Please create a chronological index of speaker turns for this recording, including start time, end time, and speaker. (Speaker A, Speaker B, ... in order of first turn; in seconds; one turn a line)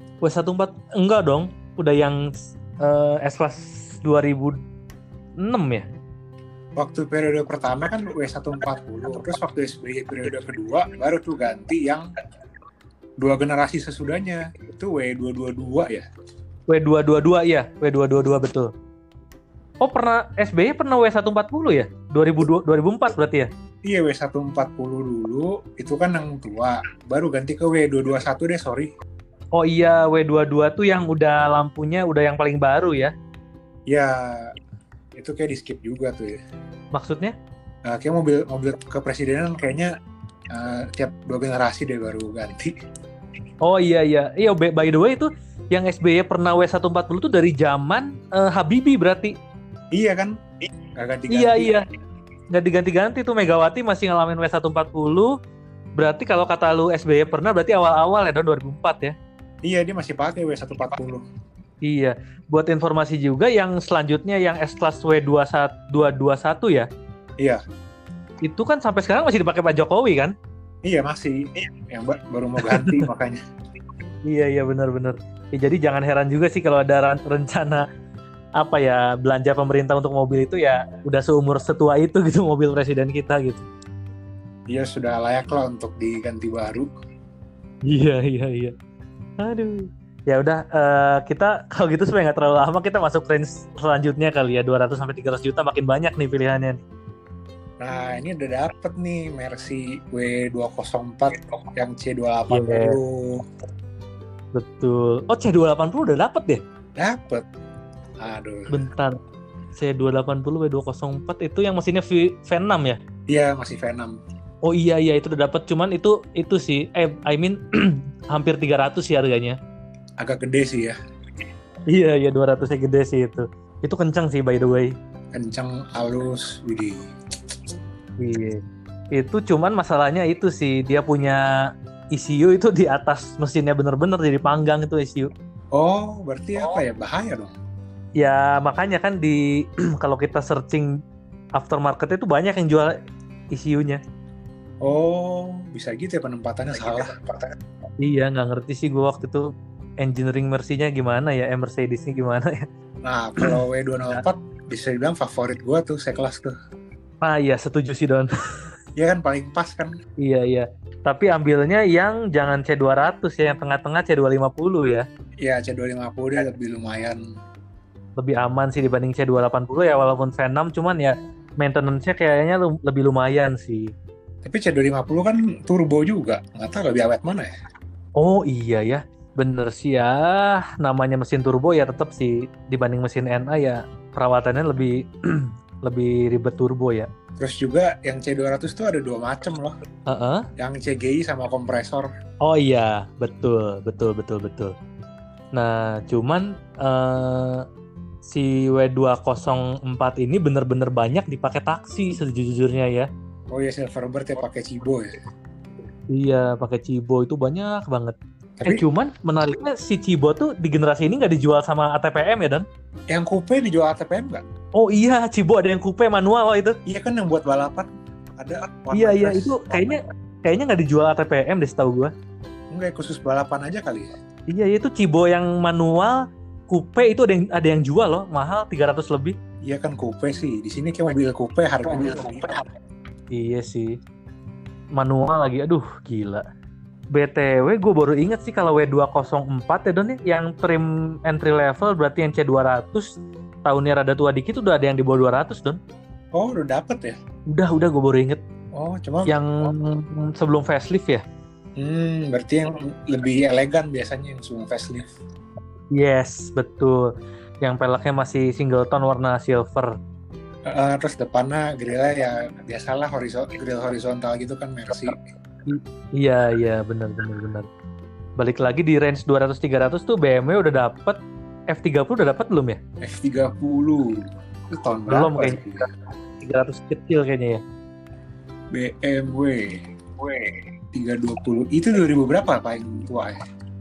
Speaker A: 0.2-4.6
Speaker A: 5.4-5.9
Speaker B: 6.8-12.1
Speaker B: 13.2-16.1
Speaker A: 16.7-18.7
Speaker A: 19.8-23.5
Speaker B: 23.9-28.9
Speaker A: 29.6-33.1
Speaker B: 33.9-34.5
Speaker B: 35.2-36.4
Speaker A: 36.9-37.4
Speaker B: 37.9-39.9
Speaker B: 40.5-42.7
Speaker A: 43.6-49.4
Speaker B: 49.9-50.4
Speaker B: 50.9-51.7
Speaker A: 51.3-51.9
Speaker A: 52.5-55.4
Speaker A: 56.0-59.1
Speaker B: 59.6-61.2
Speaker A: 61.9-66.9
Speaker A: 68.4-70.3
Speaker B: 70.8-73.4
Speaker A: 72.7-73.0
Speaker A: 74.3-77.8
Speaker A: 78.6-83.7
Speaker B: 84.7-86.9
Speaker A: 87.8-88.7
Speaker A: 89.4-96.8
Speaker B: 97.8-103.4
Speaker A: 102.5-103.0
Speaker A: 104.5-106.6
Speaker B: 107.0-107.5
Speaker B: 108.2-108.8
Speaker A: 108.7-109.2
Speaker A: 109.8-113.0
Speaker B: 113.3-114.2
Speaker A: 114.6-119.6
Speaker B: 120.2-121.0
Speaker A: 121.9-124.9
Speaker B: 125.3-127.1
Speaker A: 128.2-128.6
Speaker A: 129.1-131.4
Speaker A: 132.1-135.3
Speaker B: 135.7-137.5
Speaker A: 138.2-141.0
Speaker A: 141.6-143.0
Speaker A: 143.5-144.0
Speaker B: 144.8-147.3
Speaker A: 148.0-152.7
Speaker B: 153.1-156.5
Speaker A: 157.2-158.3
Speaker B: 159.0-159.9
Speaker A: 160.2-165.1
Speaker B: 165.4-167.2
Speaker A: 168.2-173.9
Speaker B: 174.4-177.5
Speaker A: 178.2-187.1
Speaker B: 187.4-189.8
Speaker A: 190.1-190.5
Speaker B: 190.6-192.1
Speaker A: 192.4-194.8
Speaker A: 195.5-197.7
Speaker A: 198.2-203.1
Speaker B: 203.5-205.1
Speaker A: 206.1-212.7
Speaker B: 208.6-208.8
Speaker B: 213.1-214.4
Speaker A: 214.8-216.8
Speaker B: 216.9-220.0
Speaker A: 218.9-222.1
Speaker B: 222.7-224.1
Speaker A: 224.5-229.4
Speaker B: 229.7-232.6
Speaker A: 233.3-234.0
Speaker A: 234.9-236.4
Speaker A: 237.1-245.8
Speaker B: 246.3-247.2
Speaker A: 247.5-248.4
Speaker B: 248.7-249.4
Speaker A: 249.3-251.2
Speaker B: 251.8-255.1
Speaker A: 255.9-259.9
Speaker B: 260.7-265.1
Speaker A: 265.7-267.7
Speaker A: 268.4-271.2
Speaker A: 271.7-272.8
Speaker B: 273.0-275.9
Speaker A: 275.1-275.8
Speaker A: 276.4-277.6
Speaker B: 278.7-279.9
Speaker B: 280.9-283.4